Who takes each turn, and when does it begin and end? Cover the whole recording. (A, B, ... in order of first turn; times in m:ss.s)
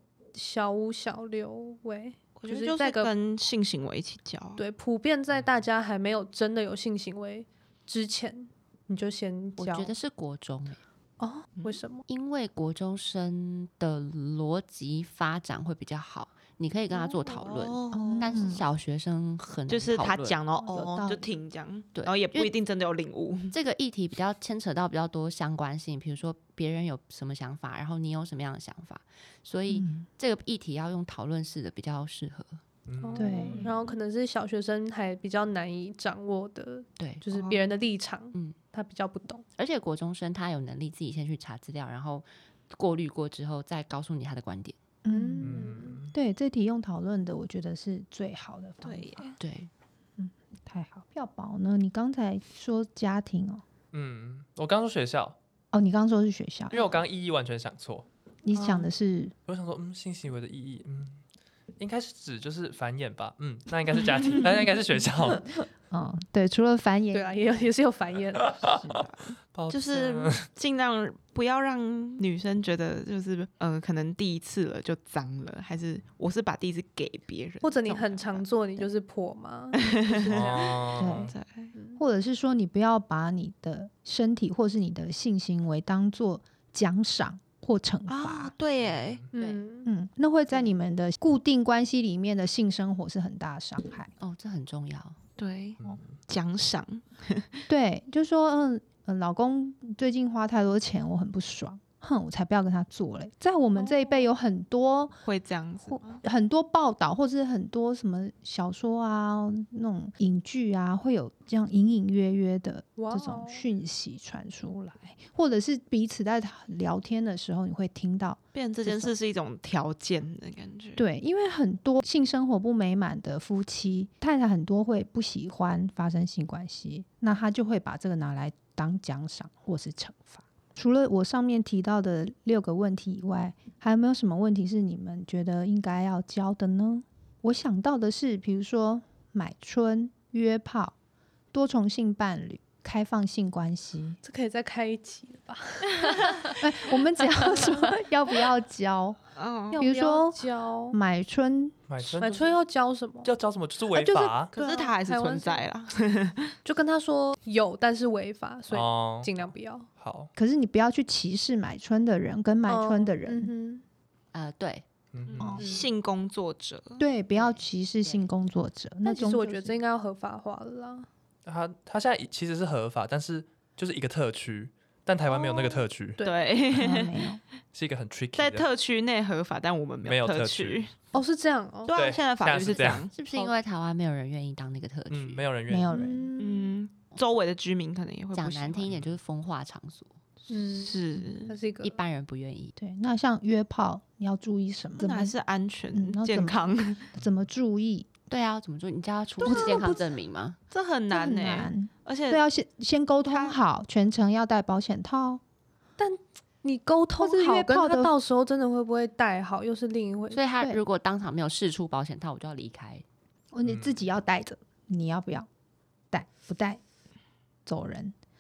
0:00.3-0:03.1 A
0:02.4-0:04.6 B
0:04.6-0:10.0 A
0:09.6-0:10.8 C
0:11.2-0:12.1 A
0:12.1-0:20.4 C
0:16.9-0:18.5 B
0:17.9-0:18.6 D
0:19.7-0:23.6 B
0:20.7-0:21.3 D
0:22.0-0:22.5 C
0:23.5-0:32.6 C
0:29.7-0:30.1 D
0:32.9-0:33.7 E
0:33.0-0:39.4 A
0:33.2-0:33.7 D
0:37.0-0:37.2 C
0:37.3-0:37.6 B
0:39.6-0:44.8 C
0:45.0-0:49.3 D
0:45.1-0:46.0 A
0:45.4-0:46.1 E
0:48.8-0:49.4 B
0:49.4-0:49.7 C
0:50.2-0:53.6 D
0:53.9-0:55.4 E
0:55.7-0:56.8 D
0:56.7-0:58.1 E
0:58.4-0:59.3 D
0:58.6-0:58.9 B
0:59.5-1:01.2 E
1:01.8-1:05.5 E
1:05.9-1:07.7 D
1:07.1-1:08.8 A
1:08.4-1:10.5 E
1:08.8-1:18.4 B
1:17.6-1:20.8 A
1:19.8-1:21.7 B
1:20.3-1:21.3 E
1:21.0-1:21.3 D
1:21.7-1:22.0 A
1:22.0-1:28.5 D
1:28.1-1:29.2 B
1:28.8-1:29.3 E
1:29.3-1:29.9 A
1:29.4-1:29.6 C
1:29.9-1:34.1 D
1:34.2-1:35.2 C
1:35.4-1:37.6 B
1:35.8-1:36.1 E
1:37.7-1:45.2 D
1:43.8-1:44.3 A
1:45.2-1:46.2 B
1:45.9-1:59.1 D
1:53.0-1:53.7 A
1:58.6-2:01.0 B
2:01.0-2:20.9 D
2:21.5-2:24.2 D
2:24.2-2:26.6 A
2:26.6-2:29.2 D
2:27.3-2:27.9 A
2:29.4-2:29.8 B
2:29.7-2:31.0 A
2:29.7-2:31.8 D
2:31.9-2:32.5 E
2:32.2-2:33.3 A
2:33.2-2:34.5 E
2:33.9-2:34.4 D
2:34.5-2:35.6 A
2:34.5-2:36.5 B
2:36.6-2:39.9 A
2:38.7-2:40.3 E
2:40.4-2:43.5 D
2:42.7-2:43.8 A
2:44.3-2:44.9 C
2:45.1-2:45.7 E
2:45.3-2:47.0 B
2:47.0-2:49.8 D
2:47.4-2:48.3 C
2:49.0-2:51.1 A
2:51.5-2:56.2 E
2:55.5-2:56.5 A
2:56.2-2:57.3 B
2:56.7-2:57.4 D
2:57.7-2:58.7 E
2:58.4-3:00.9 B
3:00.0-3:00.9 E
3:01.1-3:02.0 A
3:01.9-3:03.1 B
3:01.9-3:03.1 E
3:03.1-3:05.4 C
3:05.1-3:05.9 E
3:05.7-3:06.4 D
3:05.9-3:06.7 A
3:06.4-3:08.9 B
3:08.3-3:10.2 C
3:08.9-3:09.2 E
3:10.5-3:11.0 A
3:10.7-3:11.5 B
3:11.5-3:12.0 A
3:11.8-3:12.8 C
3:12.8-3:15.4 D
3:15.0-3:17.1 B
3:15.9-3:16.6 D
3:17.1-3:18.1 D
3:18.3-3:20.6 C
3:19.4-3:20.1 D
3:20.7-3:22.4 B
3:21.1-3:25.4 D
3:23.3-3:23.6 B
3:26.0-3:30.4 A
3:27.2-3:28.1 D
3:30.3-3:33.0 C
3:33.5-3:35.5 D
3:33.6-3:34.0 E
3:36.1-3:36.8 D
3:37.7-3:38.1 D